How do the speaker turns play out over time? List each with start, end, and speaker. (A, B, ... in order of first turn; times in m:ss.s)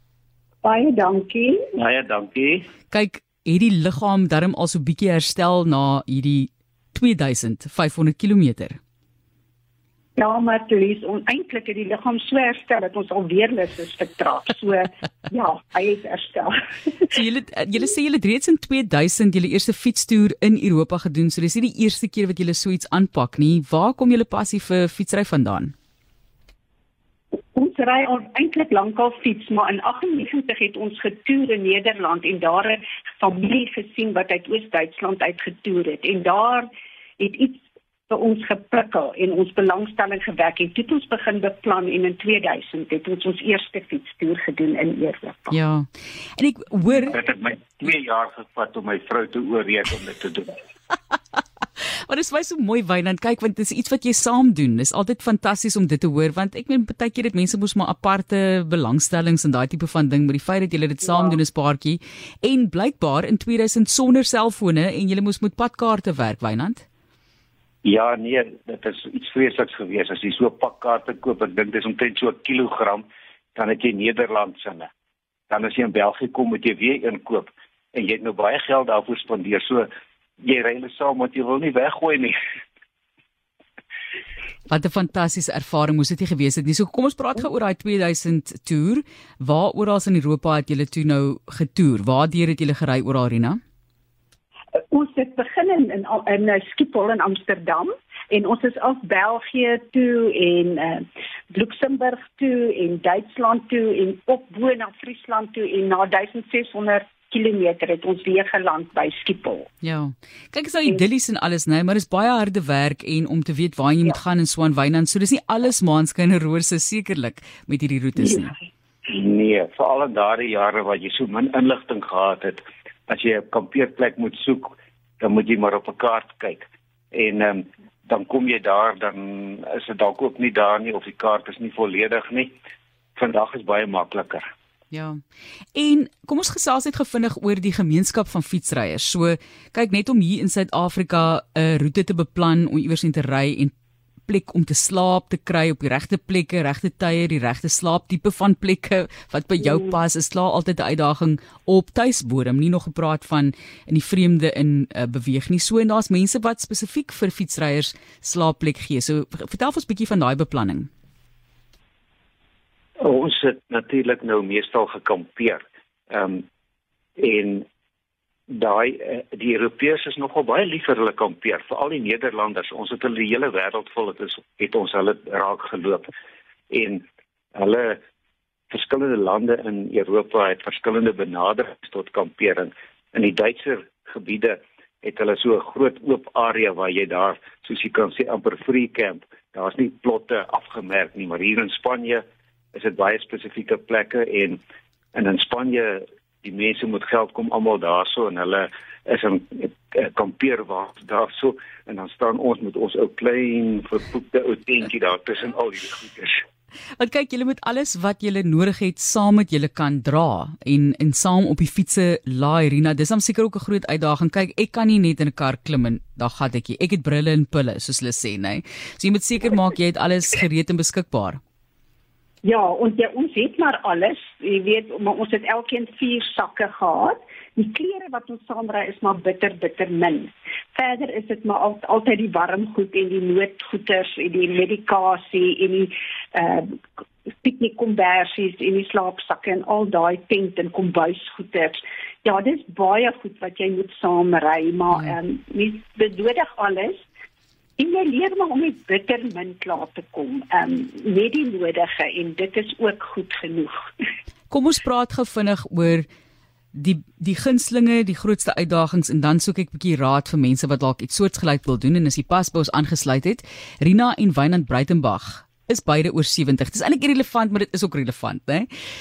0:00.6-0:01.7 A
0:01.7-0:02.7 B
0:02.9-0:08.8 C
0:10.2-0:17.1 A
0:17.0-0:25.7 C
0:27.4-0:36.7 A
0:37.2-0:45.5 A
0:45.5-0:47.1 C
0:47.1-0:50.6 B
0:52.1-1:06.8 C
1:07.8-1:14.9 B
1:15.5-1:19.9 B
1:20.4-1:22.4 B
1:24.7-1:33.6 C
1:34.9-1:49.7 A
1:49.8-1:58.6 C
1:59.1-2:12.5 B
2:13.2-2:14.5 B
2:14.9-2:15.2 C
2:15.7-2:23.7 C
2:24.3-2:40.9 C
2:43.0-2:46.4 B
2:47.2-2:47.6 B
2:48.5-2:56.1 B
2:56.7-2:58.0 B
2:58.7-3:14.6 B
3:15.1-3:26.4 B
3:27.0-3:41.4 C
3:42.4-3:56.8 A
3:57.4-4:07.0 A
4:07.8-4:13.9 A
4:14.5-4:16.1 C
4:16.7-4:28.7 C